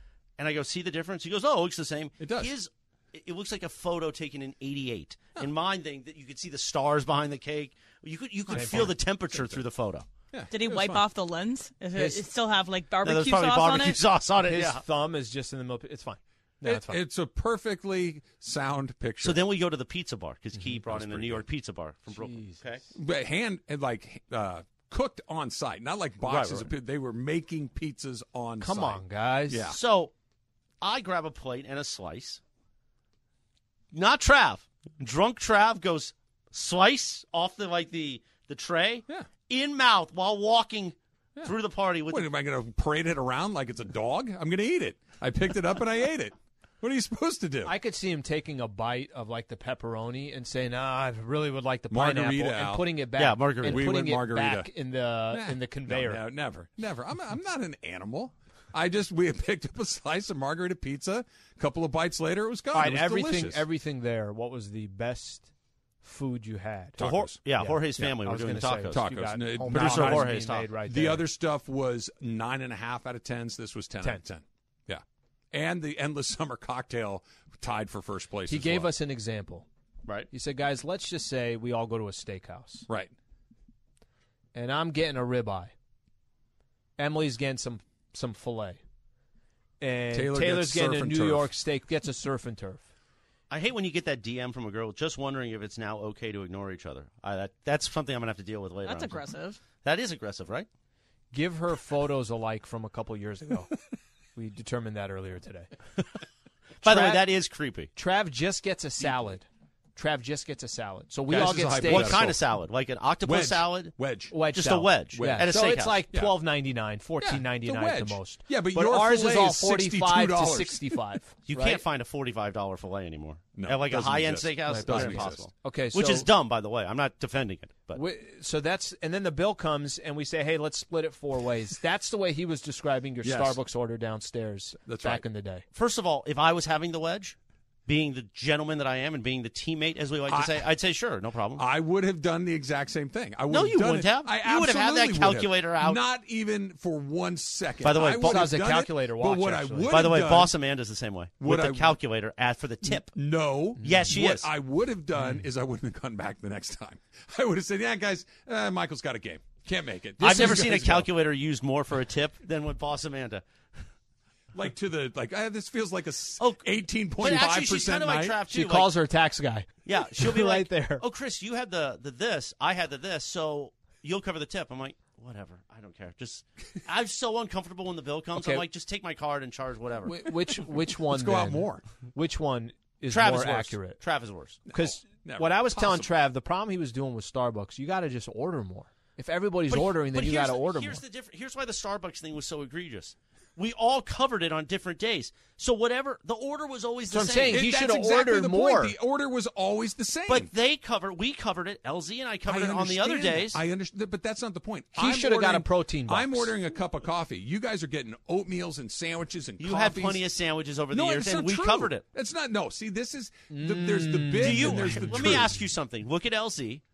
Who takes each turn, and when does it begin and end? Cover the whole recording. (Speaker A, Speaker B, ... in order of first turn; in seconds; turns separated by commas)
Speaker A: 0.4-10.1, Speaker B: 2.2-2.5, Speaker B: 8.5-9.6, Speaker C: 8.5-8.9, Speaker B: 10.3-11.1, Speaker D: 10.5-14.0, Speaker C: 11.9-12.2, Speaker A: 13.0-14.8, Speaker C: 14.4-17.0, Speaker B: 16.6-19.4, Speaker A: 19.2-22.8, Speaker B: 20.8-21.4, Speaker C: 22.1-22.6, Speaker B: 22.9-29.8, Speaker A: 26.3-26.7, Speaker C: 28.6-29.7, Speaker A: 29.7-30.1, Speaker A: 30.8-32.4, Speaker A: 33.9-42.3, Speaker B: 42.1-47.7, Speaker C: 47.6-56.2, Speaker B: 51.9-52.9, Speaker A: 53.2-53.9, Speaker B: 53.6-54.7, Speaker B: 55.3-63.6, Speaker C: 62.7-65.5, Speaker C: 66.0-71.3, Speaker B: 67.0-67.4, Speaker A: 67.0-69.1, Speaker B: 68.9-78.9, Speaker A: 69.7-70.7, Speaker C: 78.5-79.7, Speaker C: 80.3-82.9, Speaker C: 84.5-85.7, Speaker C: 87.0-88.8, Speaker C: 89.8-92.9, Speaker B: 90.1-91.5, Speaker A: 93.5-99.2, Speaker D: 98.8-99.6, Speaker A: 99.8-100.7, Speaker C: 101.3-103.7, Speaker C: 104.4-105.7, Speaker C: 106.8-107.3, Speaker A: 106.8-107.9, Speaker C: 108.0-112.2, Speaker B: 111.3-112.4, Speaker A: 111.4-114.0, Speaker B: 113.2-114.5, Speaker C: 114.3-121.8, Speaker A: 114.5-116.0, Speaker B: 115.1-116.4, Speaker B: 117.2-121.0, Speaker A: 121.5-128.0, Speaker B: 123.5-125.5, Speaker C: 124.7-126.3, Speaker C: 127.9-135.7, Speaker B: 133.2-133.6, Speaker B: 134.8-135.2, Speaker A: 135.7-137.3, Speaker A: 137.9-141.6, Speaker B: 140.3-140.7, Speaker B: 141.6-150.5, Speaker A: 143.5-146.0, Speaker A: 147.8-148.5, Speaker C: 148.2-150.0, Speaker A: 149.9-153.1, Speaker B: 151.4-152.0, Speaker B: 152.8-161.1, Speaker C: 153.8-154.2, Speaker A: 153.8-154.5, Speaker C: 155.2-155.5, Speaker C: 160.2-160.7, Speaker A: 160.2-163.4, Speaker B: 164.5-168.4, Speaker A: 167.2-168.9, Speaker C: 168.5-171.0, Speaker A: 169.8-180.3, Speaker C: 178.3-178.6, Speaker C: 180.1-184.0, Speaker B: 181.0-181.8, Speaker A: 183.1-184.6, Speaker B: 184.7-186.1, Speaker C: 184.7-191.0, Speaker A: 189.7-197.6, Speaker C: 197.1-198.9, Speaker B: 197.5-200.5, Speaker A: 200.3-203.6, Speaker B: 202.5-210.2, Speaker C: 205.0-206.6, Speaker A: 209.6-212.1, Speaker B: 210.9-215.6, Speaker C: 213.5-215.5, Speaker A: 214.3-216.8